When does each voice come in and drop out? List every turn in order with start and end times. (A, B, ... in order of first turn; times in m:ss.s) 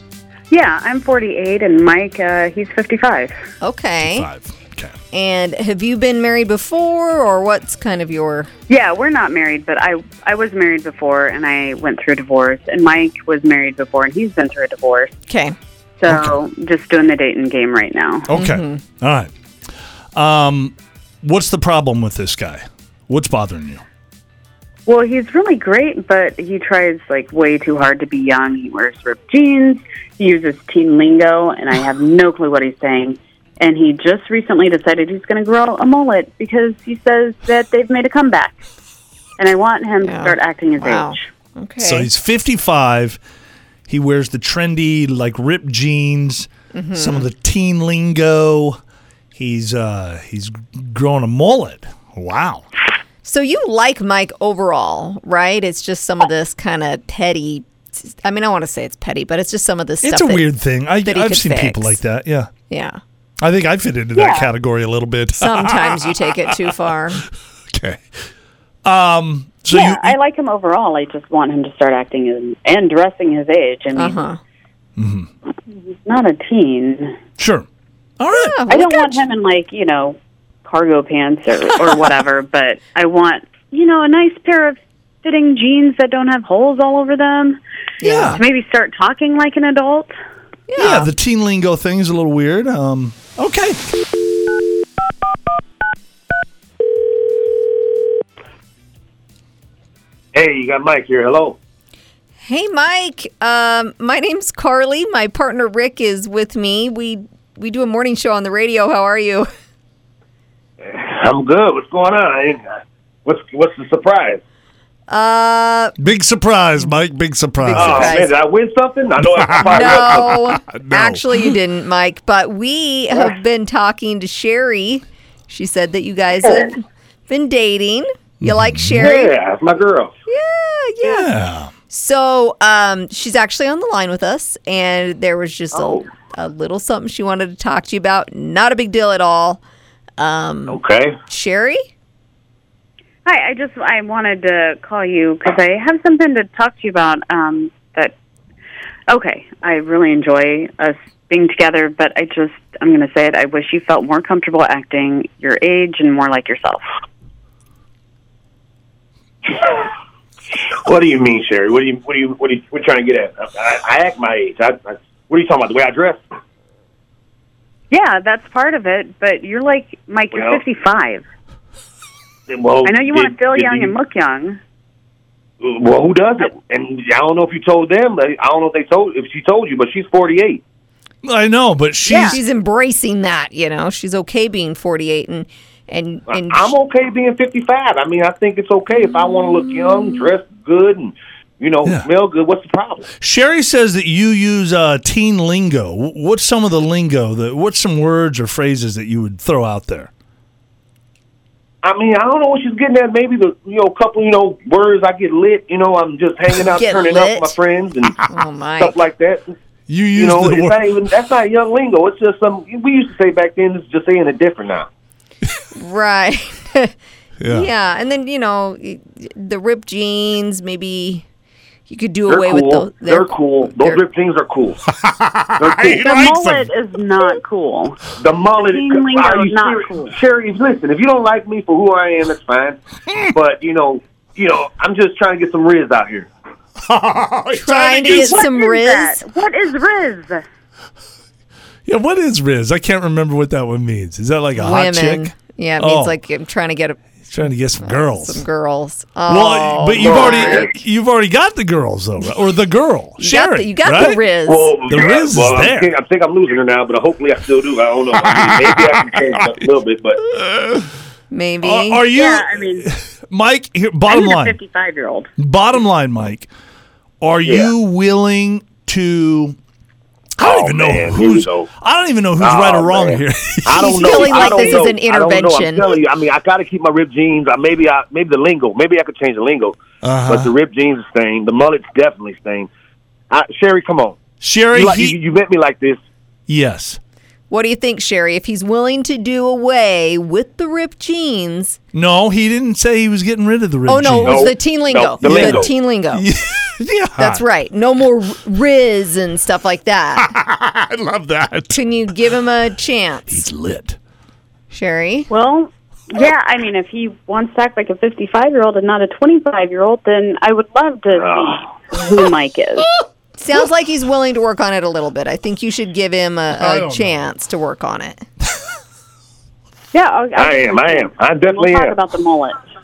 0:00.5-0:03.3 A
0:03.6-0:04.3 B
0:04.0-0:05.0 C
0:05.1-0:08.5 B
0:08.7-0:15.1 A
0:15.3-0:15.5 B
0:16.0-0:18.3 A
0:16.0-0:16.4 C
0:18.3-0:19.3 C
0:18.3-0:18.8 B
0:20.1-0:23.8 C
0:24.8-0:38.6 A
0:39.4-0:41.2 A
0:40.0-0:42.1 B
0:41.8-0:43.2 C
0:43.9-0:48.8 C
0:46.7-0:47.3 B
0:49.3-0:52.7 C
0:53.2-1:02.0 B
1:00.0-1:02.5 C
1:02.7-1:03.0 B
1:03.4-1:06.0 C
1:04.1-1:04.5 A
1:05.4-1:07.2 B
1:07.7-1:08.0 C
1:08.8-1:10.2 C
1:09.7-1:14.2 A
1:14.0-1:14.4 B
1:15.0-1:15.3 C
1:15.7-1:17.2 A
1:17.4-1:17.7 C
1:18.2-1:18.6 C
1:18.3-1:19.2 B
1:18.7-1:27.6 A
1:28.0-1:28.4 B
1:28.0-1:28.4 C
1:28.2-1:30.1 A
1:30.7-1:31.1 B
1:30.8-1:33.8 C
1:40.3-1:41.6 D
1:42.4-1:49.5 B
1:50.8-1:52.6 D
1:53.2-1:54.4 D
1:55.1-1:55.9 B
1:56.0-1:58.2 C
1:57.6-1:58.3 B
1:57.7-2:00.3 D
1:59.3-2:01.4 C
1:59.6-2:09.3 B
2:08.4-2:09.0 C
2:09.0-2:10.1 D
2:10.3-2:11.3 B
2:11.0-2:11.7 C
2:11.9-2:19.6 B
2:15.7-2:16.1 D
2:20.2-2:21.8 B
2:20.7-2:21.1 D
2:23.2-2:28.1 A
2:29.1-2:36.8 A
2:39.5-2:39.9 D
2:40.5-2:46.2 D
2:47.9-2:51.2 A
2:50.3-2:50.6 D
2:52.5-2:53.9 D
2:52.8-2:54.6 A
2:55.6-3:00.6 D
3:01.2-3:02.4 C
3:02.0-3:02.3 A
3:02.2-3:06.7 B
3:06.3-3:13.1 D
3:13.2-3:20.1 C
3:21.8-3:28.2 D
3:26.7-3:27.6 B
3:28.3-3:29.0 B
3:28.8-3:29.5 D
3:29.9-3:31.0 C
3:30.2-3:34.9 D
3:35.8-3:36.9 B
3:37.4-3:37.7 C
3:37.5-3:41.2 B
3:41.9-3:44.0 B
3:42.3-3:44.8 D
3:45.0-3:46.7 C
3:45.6-3:46.0 D
3:45.8-3:48.0 A
3:48.2-3:56.3 D
3:48.6-3:50.2 A
3:56.8-3:58.5 C
3:57.5-3:59.2 B
3:57.6-4:00.4 A
4:01.8-4:06.2 C
4:04.5-4:07.0 B
4:07.2-4:08.4 C
4:07.8-4:10.7 B
4:09.3-4:14.2 C
4:10.0-4:10.8 D
4:13.2-4:14.7 B
4:14.1-4:20.2 D
4:14.9-4:15.9 C
4:18.3-4:18.7 C
4:20.3-4:20.9 C
4:21.3-4:22.0 B
4:21.6-4:24.6 C
4:22.1-4:22.9 A
4:24.1-4:25.3 A
4:25.4-4:26.5 C
4:27.2-4:29.6 C
4:27.4-4:27.7 D
4:30.4-4:34.7 C
4:30.4-4:31.7 D
4:32.4-4:42.7 D
4:33.8-4:36.0 B
4:40.0-4:40.5 C
4:43.3-4:44.2 D
4:44.4-4:45.2 C
4:44.7-4:46.0 D
4:46.5-4:47.0 C
4:47.5-4:51.8 B
4:51.9-4:54.5 C
4:53.9-4:56.3 B
4:54.2-4:55.7 D
4:55.2-4:57.4 C
4:57.2-5:00.3 B
5:00.2-5:01.8 C
5:01.7-5:03.4 B
5:03.3-5:04.0 C
5:04.7-5:05.3 B
5:05.3-5:12.9 A
5:11.1-5:11.6 D
5:13.4-5:18.2 B
5:16.5-5:17.2 C
5:19.9-5:22.6 A
5:20.4-5:22.0 D